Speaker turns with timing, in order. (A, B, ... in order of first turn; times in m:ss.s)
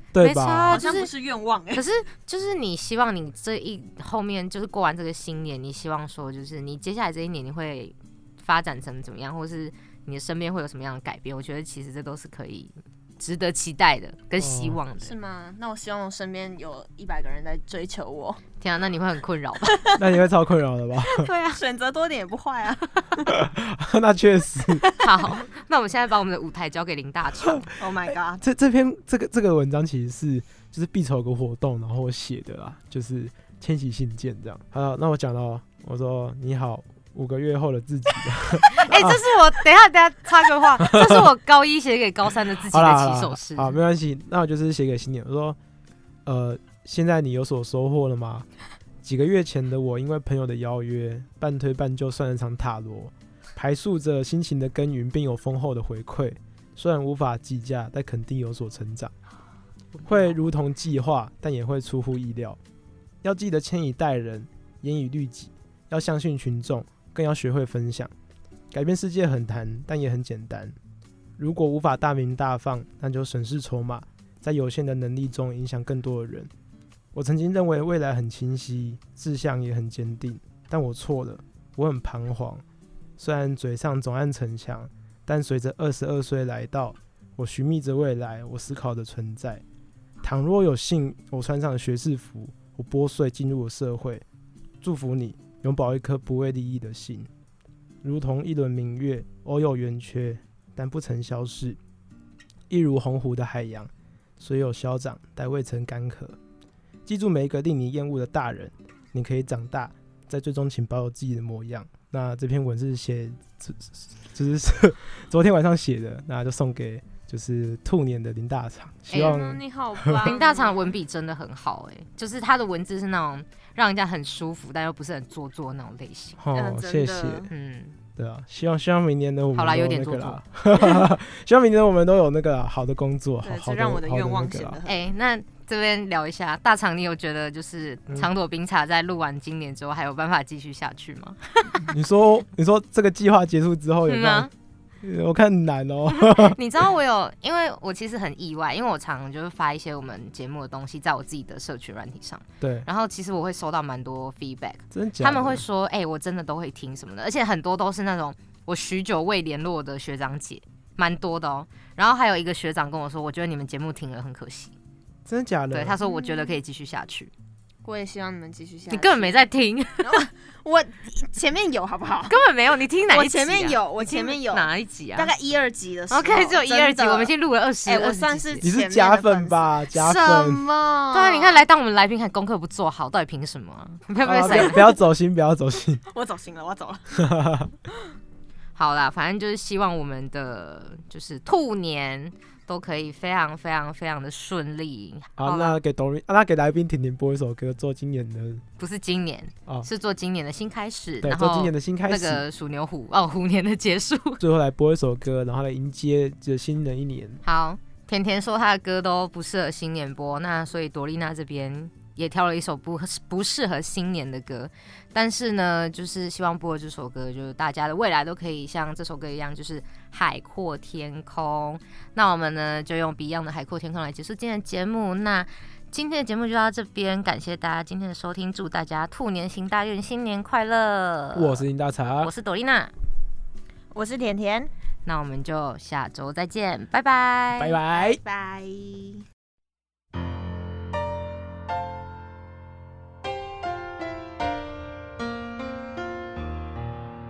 0:00.1-0:00.8 A
0:00.2-0:01.1 B
0:00.7-0:01.8 C
0:01.7-0:15.1 B
0:14.4-0:14.8 A
0:15.0-0:18.4 C
0:18.6-0:19.8 B
0:20.0-0:21.3 A
0:21.2-0:23.4 C
0:23.3-0:24.9 A
0:25.0-0:27.7 B
0:27.8-0:28.4 C
0:28.1-0:39.2 A
0:38.8-0:43.8 B
0:40.8-0:41.2 A
0:42.7-0:45.6 A
0:46.2-0:48.5 A
0:49.0-0:59.1 A
1:00.0-1:02.6 A
1:03.2-1:08.1 A
1:08.7-1:10.8 A
1:11.4-1:16.5 A
1:17.1-1:22.6 A
1:23.2-1:29.6 A
1:30.2-1:34.2 A
1:34.8-1:37.3 A
1:38.0-1:41.8 A
1:42.7-1:46.4 A
1:47.1-2:00.2 A
1:59.1-2:00.9 C
2:00.2-2:06.4 B
2:06.4-2:07.5 A
2:06.5-2:07.5 C
2:07.5-2:08.0 B
2:08.2-2:14.8 A
2:09.6-2:10.4 B
2:13.4-2:15.0 C
2:14.9-2:21.4 B
2:21.9-2:24.5 A
2:24.1-2:24.5 B
2:25.0-2:26.6 A
2:26.2-2:44.7 B
2:32.6-2:32.9 A
2:34.9-2:35.6 A
2:45.3-2:46.0 A
2:45.7-2:47.3 B
2:46.0-2:46.6 C
2:47.8-2:49.5 C
2:48.9-2:50.2 B
2:50.0-2:52.4 C
2:52.3-2:55.3 B
2:53.1-2:57.3 C
2:56.1-2:58.7 B
2:57.8-3:01.6 C
2:58.6-3:00.6 A
3:01.1-3:04.8 B
3:04.2-3:06.0 A
3:04.4-3:04.9 C
3:06.1-3:07.1 C
3:07.2-3:07.7 A
3:08.8-3:15.8 B
3:15.4-3:18.6 A
3:18.8-3:24.4 B
3:21.2-3:22.4 A
3:24.4-3:27.4 A
3:27.4-3:51.6 B
3:51.3-3:52.3 A
3:52.2-3:52.9 B
3:53.9-3:54.7 C
3:55.1-3:57.8 B
3:57.6-3:58.2 A
3:57.9-3:59.2 C